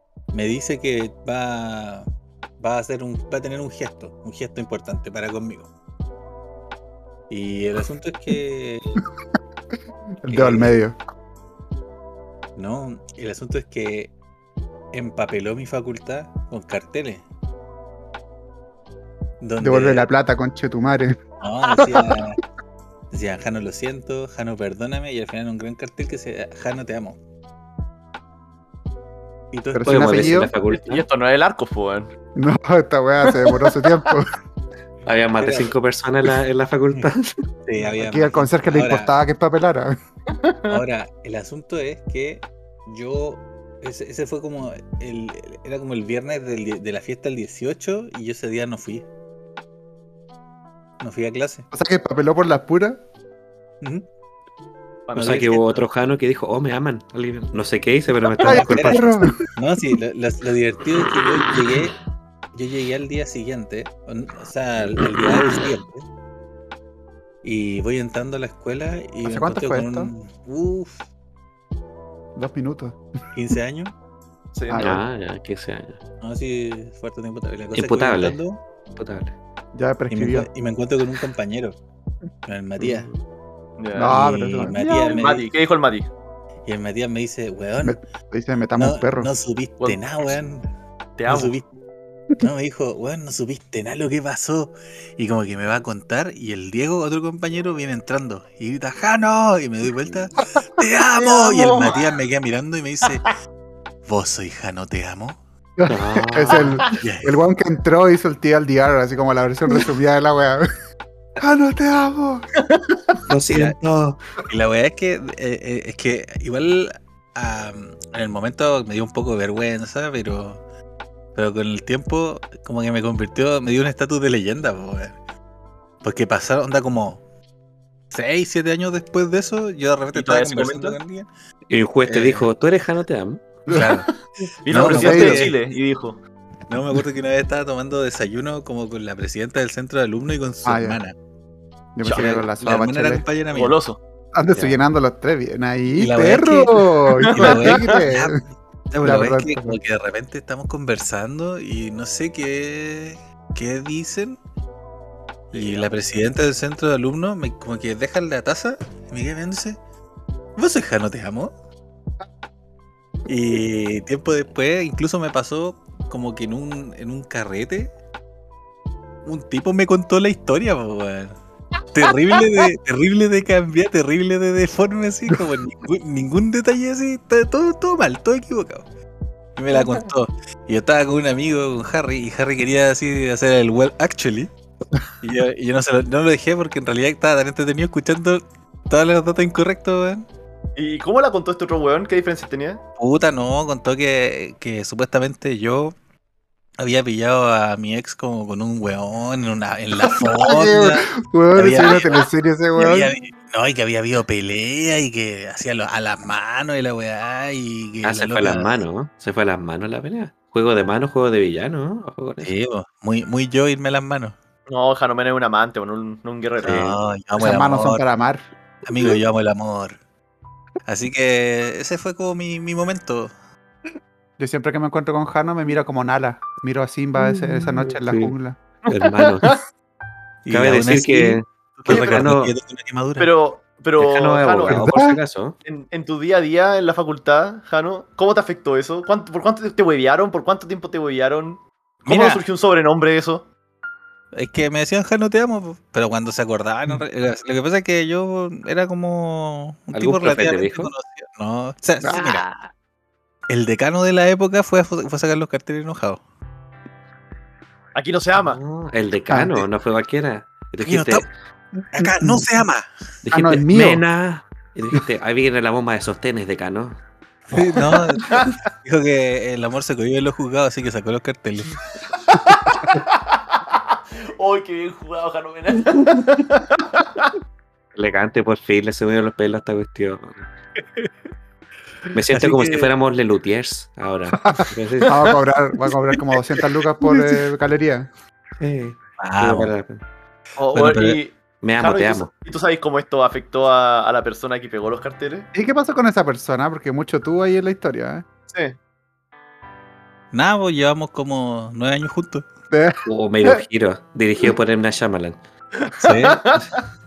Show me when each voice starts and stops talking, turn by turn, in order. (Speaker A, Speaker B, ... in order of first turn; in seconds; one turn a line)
Speaker A: 0.3-2.1
Speaker A: 2.6-5.7
Speaker A: 7.3-9.0
Speaker B: 10.2-10.9
Speaker A: 10.3-10.8
Speaker A: 12.6-14.1
Speaker A: 14.9-17.2
Speaker A: 19.4-20.1
Speaker B: 19.6-21.2
Speaker A: 21.4-22.4
Speaker A: 23.1-27.2
Speaker A: 29.5-30.5
Speaker B: 29.7-30.5
Speaker C: 29.8-31.0
Speaker D: 30.7-32.1
Speaker B: 32.4-34.3
Speaker D: 33.5-33.7
Speaker C: 35.0-37.3
Speaker A: 35.4-35.7
Speaker A: 37.6-39.1
Speaker B: 38.0-40.0
Speaker D: 40.4-40.8
Speaker A: 40.7-49.0
Speaker A: 51.0-51.7
Speaker B: 51.7-53.0
Speaker A: 53.8-54.0
Speaker D: 55.1-55.8
Speaker A: 55.1-55.8
Speaker C: 55.2-59.2
Speaker B: 58.4-59.4
Speaker A: 58.4-62.0
Speaker A: 62.5-66.0
Speaker A: 67.4-71.0
Speaker B: 69.2-70.1
Speaker B: 72.3-73.0
Speaker A: 73.3-73.9
Speaker D: 74.5-74.9
Speaker B: 74.7-75.0
Speaker C: 74.8-76.0
Speaker A: 76.2-78.6
Speaker C: 77.7-78.4
Speaker C: 78.9-79.3
Speaker B: 79.7-80.5
Speaker A: 80.1-81.8
Speaker A: 82.5-83.1
Speaker C: 82.8-83.1
Speaker D: 83.8-84.2
Speaker B: 84.0-85.2
Speaker A: 84.0-85.5
Speaker D: 85.0-86.1
Speaker A: 86.7-88.0
Speaker B: 87.8-89.3
Speaker A: 88.8-90.7
Speaker D: 91.2-91.5
Speaker A: 91.3-91.7
Speaker A: 92.4-103.3
Speaker D: 101.2-102.0
Speaker A: 104.0-105.4
Speaker B: 105.8-110.7
Speaker C: 105.9-106.8
Speaker A: 106.9-107.5
Speaker B: 111.4-112.5
Speaker C: 113.3-114.2
Speaker A: 113.5-113.8
Speaker A: 114.5-120.6
Speaker A: 121.3-125.2
Speaker A: 126.0-127.2
Speaker A: 128.1-131.3
Speaker D: 130.1-131.0
Speaker C: 131.7-133.5
Speaker A: 132.1-132.5
Speaker A: 133.7-134.1
Speaker D: 134.6-136.2
Speaker A: 134.7-135.6
Speaker B: 134.8-135.5
Speaker A: 136.7-141.1
Speaker B: 140.6-141.0
Speaker B: 141.9-143.2
Speaker D: 142.0-142.4
Speaker A: 142.0-143.8
Speaker D: 143.5-144.0
Speaker B: 144.3-148.3
Speaker A: 145.9-148.4
Speaker D: 147.2-148.0
Speaker A: 148.9-154.4
Speaker B: 149.0-149.8
Speaker A: 155.5-159.8
Speaker D: 155.5-155.9
Speaker A: 160.6-161.5
Speaker A: 163.2-167.9
Speaker A: 169.2-171.4
Speaker A: 171.9-178.8
Speaker D: 172.3-172.6
Speaker A: 179.6-184.5
Speaker A: 185.2-190.2
Speaker D: 190.8-192.8
Speaker A: 193.0-195.9
Speaker A: 196.8-202.2
Speaker B: 200.2-203.1
Speaker A: 202.8-208.8
Speaker C: 208.0-212.5
Speaker A: 212.4-214.4
Speaker D: 214.7-217.0
Speaker A: 216.6-218.0
Speaker B: 217.4-218.4
Speaker A: 218.8-220.0
Speaker A: 220.8-223.3
Speaker B: 224.4-228.6
Speaker C: 227.8-228.3
Speaker D: 228.9-229.6
Speaker C: 228.9-229.5
Speaker A: 230.4-233.3
Speaker C: 230.5-232.5
Speaker D: 231.9-232.4
Speaker D: 233.2-234.8
Speaker C: 234.0-235.6
Speaker B: 234.7-235.2
Speaker D: 235.6-243.5
Speaker A: 242.1-242.4
Speaker A: 244.3-252.4
Speaker C: 249.9-250.9
Speaker C: 252.1-252.7
Speaker A: 253.5-256.2
Speaker D: 257.9-258.6
Speaker C: 258.4-261.3
Speaker B: 259.3-259.6
Speaker A: 260.8-261.3
Speaker B: 261.8-262.4
Speaker A: 261.9-262.9
Speaker C: 263.2-267.0
Speaker B: 263.3-264.0
Speaker A: 267.5-271.8
Speaker D: 272.2-277.3
Speaker C: 277.9-280.4
Speaker C: 282.1-285.3
Speaker A: 282.3-282.9
Speaker B: 284.4-288.1
Speaker C: 288.6-290.0
Speaker A: 289.2-289.7
Speaker D: 290.6-295.5
Speaker A: 290.7-291.2
Speaker C: 291.6-292.3
Speaker B: 295.5-298.2
Speaker D: 298.5-298.8
Speaker A: 300.3-302.5
Speaker B: 302.7-303.6
Speaker C: 303.0-305.4
Speaker D: 305.8-306.8
Speaker A: 306.0-306.4